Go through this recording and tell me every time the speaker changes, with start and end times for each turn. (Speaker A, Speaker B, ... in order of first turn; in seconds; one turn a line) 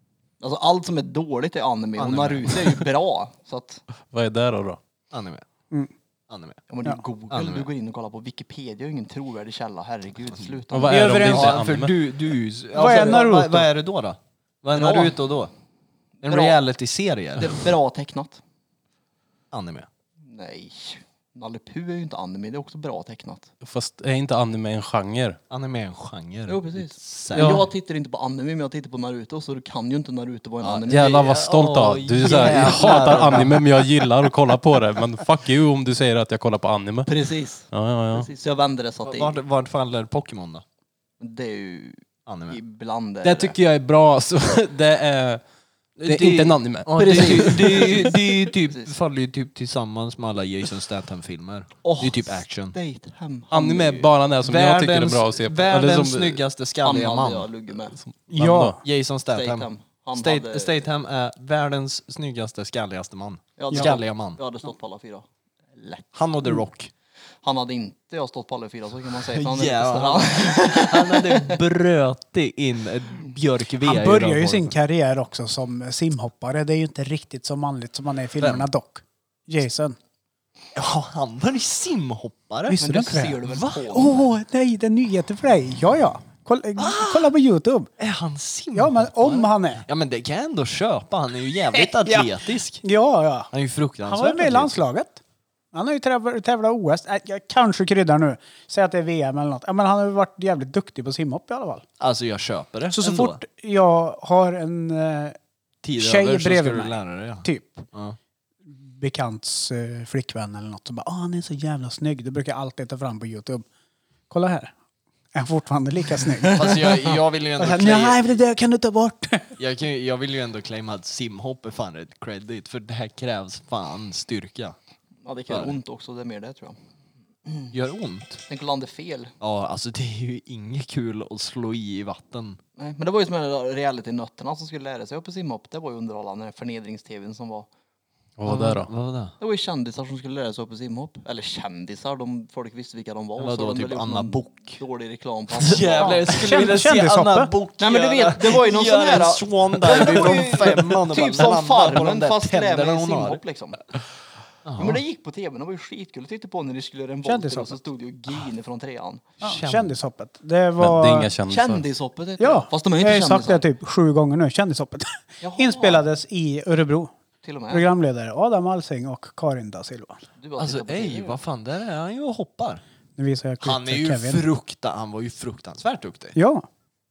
Speaker A: 0.4-3.8
Speaker B: 2.0-2.8
Speaker C: 4.1-4.8
Speaker B: 5.1-5.4
Speaker B: 6.3-6.6
Speaker A: 6.7-11.2
Speaker B: 7.3-7.7
Speaker C: 10.7-11.9
Speaker D: 10.9-11.6
Speaker B: 11.1-15.5
Speaker D: 12.7-13.7
Speaker A: 12.8-13.2
Speaker A: 14.7-15.2
Speaker A: 16.2-16.6
Speaker B: 16.2-17.7
Speaker A: 17.4-18.4
Speaker B: 19.5-19.9
Speaker A: 20.3-23.5
Speaker C: 23.6-25.4
Speaker B: 25.5-27.7
Speaker A: 26.5-31.3
Speaker C: 27.3-27.7
Speaker B: 30.6-33.8
Speaker C: 30.9-37.1
Speaker A: 32.2-33.6
Speaker A: 37.1-39.4
Speaker C: 37.7-38.3
Speaker B: 39.0-40.6
Speaker A: 41.2-43.5
Speaker B: 42.3-42.6
Speaker C: 43.2-45.4
Speaker B: 46.0-52.8
Speaker C: 46.0-48.0
Speaker A: 47.0-48.9
Speaker A: 51.8-54.1
Speaker C: 53.5-56.4
Speaker B: 54.4-57.5
Speaker A: 56.8-58.0
Speaker C: 58.0-58.8
Speaker D: 58.3-58.8
Speaker B: 58.4-64.4
Speaker A: 59.3-60.7
Speaker A: 63.6-66.1
Speaker D: 63.7-64.0
Speaker B: 66.1-66.9
Speaker A: 67.4-71.6
Speaker B: 69.3-74.7
Speaker D: 73.8-80.0
Speaker B: 78.4-78.7
Speaker B: 80.8-82.8
Speaker D: 82.7-87.9
Speaker A: 82.8-84.2
Speaker B: 83.4-83.9
Speaker B: 86.8-87.3
Speaker B: 88.0-92.8
Speaker D: 88.7-89.8
Speaker D: 91.8-92.3
Speaker D: 92.8-93.5
Speaker B: 93.5-94.8
Speaker D: 94.0-95.2
Speaker D: 95.7-101.8
Speaker B: 102.0-103.4
Speaker D: 102.9-105.4
Speaker B: 105.8-108.2
Speaker D: 106.0-107.9
Speaker D: 108.7-113.7
Speaker D: 114.3-114.7
Speaker D: 115.3-117.0
Speaker B: 116.5-118.2
Speaker D: 117.6-119.5
Speaker B: 119.6-124.8
Speaker A: 125.2-126.8
Speaker B: 125.5-125.8
Speaker A: 127.5-127.7
Speaker B: 127.7-128.4
Speaker A: 128.5-129.3
Speaker B: 129.4-132.6
Speaker A: 132.8-137.7
Speaker C: 138.4-138.9
Speaker B: 138.4-139.3
Speaker A: 139.4-146.5
Speaker B: 143.4-144.8
Speaker B: 145.5-153.4
Speaker D: 146.0-147.5
Speaker A: 147.8-153.8
Speaker B: 154.7-155.0
Speaker A: 154.8-159.3
Speaker D: 157.2-157.8
Speaker B: 159.4-159.9
Speaker D: 159.4-161.3
Speaker C: 160.8-161.8
Speaker A: 161.5-163.6
Speaker D: 162.4-167.1
Speaker A: 165.4-166.1
Speaker A: 167.4-167.9
Speaker D: 167.7-170.2
Speaker A: 170.4-171.4
Speaker B: 170.6-172.8
Speaker D: 173.2-174.4
Speaker B: 173.6-176.4
Speaker D: 176.3-176.7